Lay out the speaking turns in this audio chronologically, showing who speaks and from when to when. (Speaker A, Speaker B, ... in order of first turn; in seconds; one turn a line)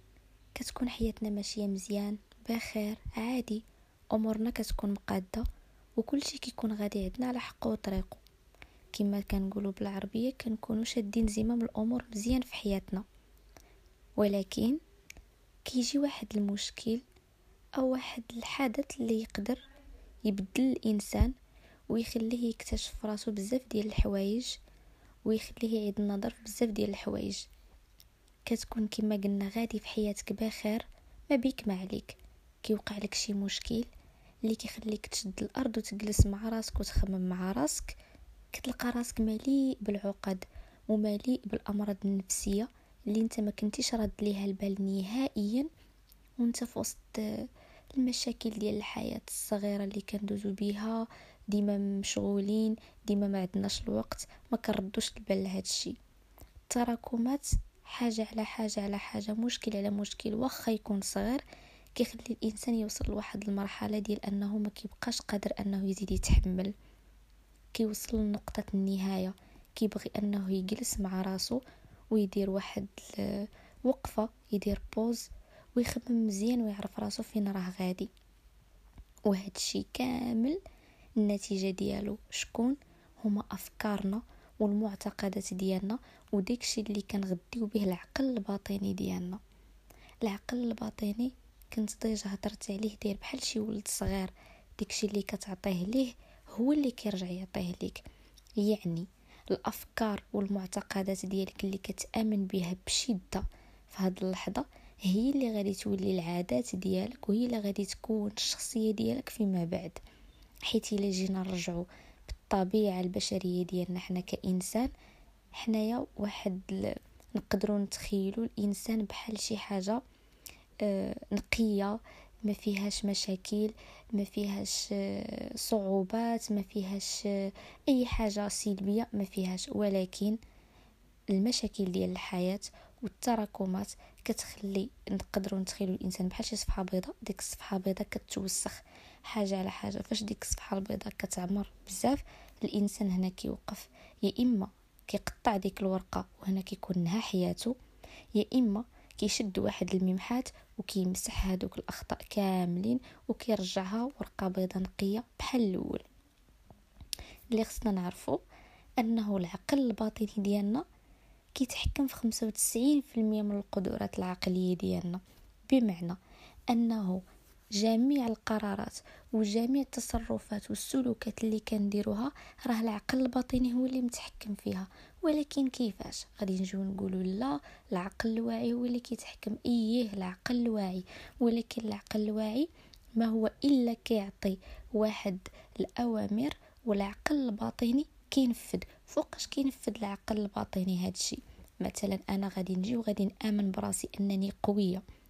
Speaker A: 0.6-3.6
Speaker A: 4.1-5.5
Speaker A: 6.0-8.2
Speaker A: 8.9-13.1
Speaker A: 14.2-14.8
Speaker A: 15.7-17.0
Speaker A: 17.8-19.6
Speaker A: 20.3-21.3
Speaker A: 21.9-24.6
Speaker A: 25.3-27.5
Speaker A: 28.5-33.9
Speaker A: 34.5-38.0
Speaker A: 38.5-45.7
Speaker A: 46.4-56.0
Speaker A: 56.7-61.4
Speaker A: 62.0-66.7
Speaker A: 67.8-78.1
Speaker A: 79.3-80.6
Speaker A: 81.2-89.4
Speaker A: 90.2-98.0
Speaker A: 98.6-110.0
Speaker A: 110.7-114.9
Speaker A: 115.5-120.0
Speaker A: 120.8-130.4
Speaker A: 131.3-147.8
Speaker A: 148.4-156.1
Speaker A: 157.6-158.4
Speaker A: 159.0-160.8
Speaker A: 161.6-166.2
Speaker A: 166.7-167.2
Speaker A: 167.8-195.0